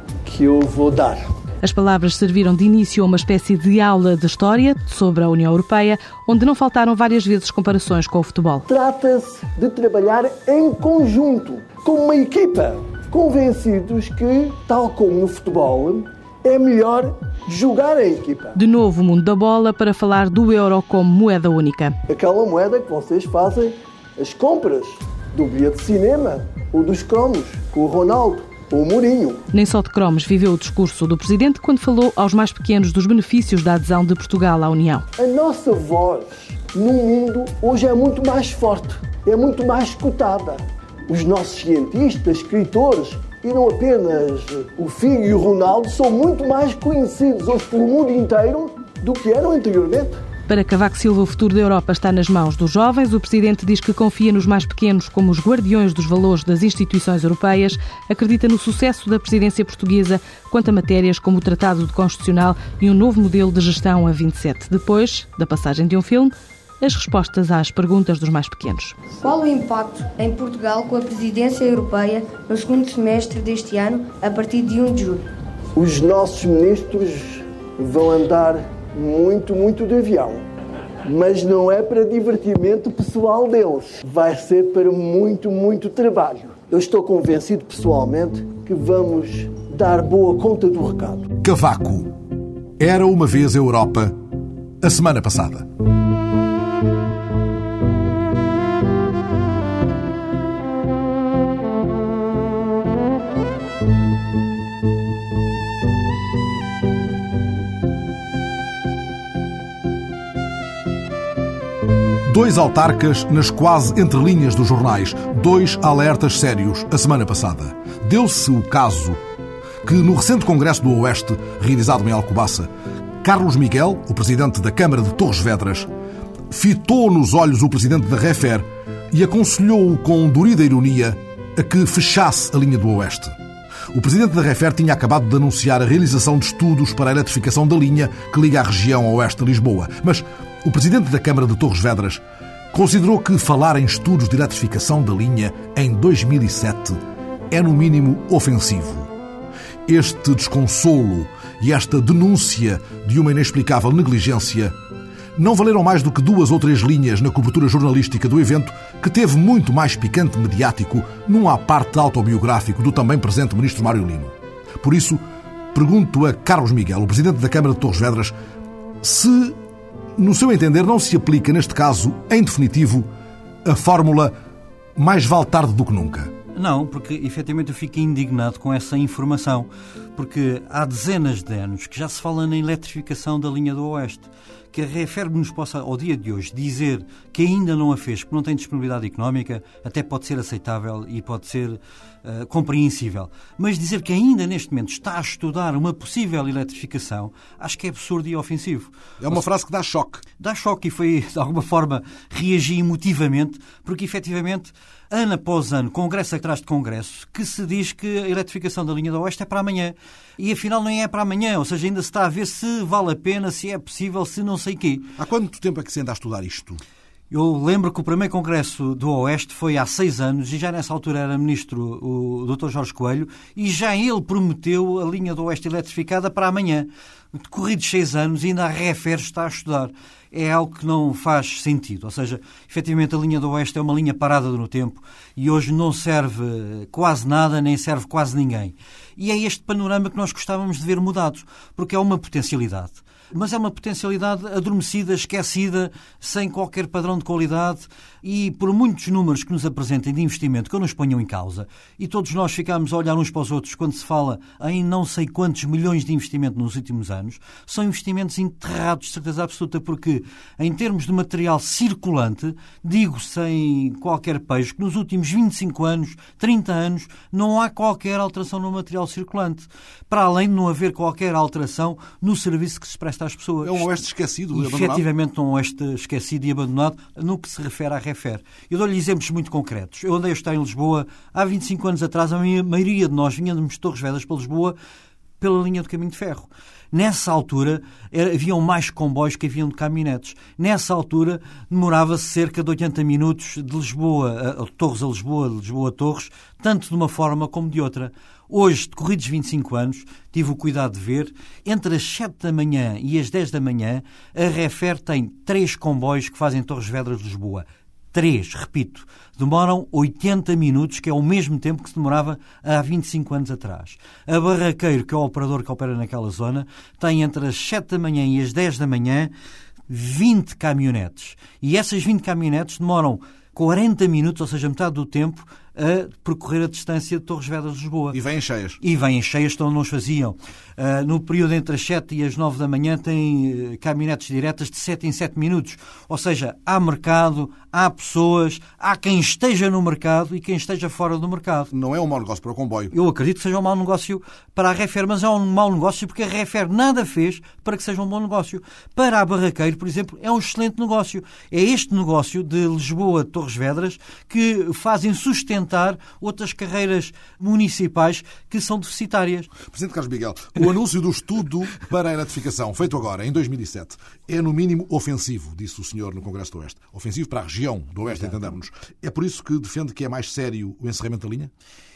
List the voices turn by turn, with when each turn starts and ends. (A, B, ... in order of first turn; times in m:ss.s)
0:00.3-0:01.2 A
0:01.6-0:08.6 B
0:08.7-0:18.6 A
0:18.5-0:21.9 B
0:22.1-0:29.4 A
0:29.5-0:35.0 B
0:35.2-0:50.1 A
0:50.5-1:09.0 B
1:09.1-1:15.2 C
1:15.8-1:20.4 A
1:21.1-1:31.2 A
1:31.4-1:32.1 D
1:32.8-1:34.1 D
1:34.8-1:35.7 D
1:52.2-1:59.2 D
1:59.8-2:02.7 D
2:03.2-2:05.9 D
2:06.5-2:13.4 D
2:13.9-2:27.0 D
2:27.5-2:29.1 D
2:29.9-2:34.7 D
2:35.4-2:45.2 D
2:45.7-2:48.3 D
2:49.0-2:49.6 D
2:50.2-2:53.1 D
2:53.6-2:54.3 D
2:55.0-2:56.3 D
2:56.5-3:19.4 E
3:19.2-3:20.2 D
3:20.4-3:35.1 E
3:35.2-3:36.8 D
3:37.3-4:44.8 E
4:33.6-4:35.1 D
4:45.4-5:19.3 E
5:19.9-5:28.2 E
5:28.1-5:28.8 D
5:28.8-5:41.7 E
5:41.7-5:42.9 D
5:42.9-5:59.5 E
5:59.6-6:11.5 D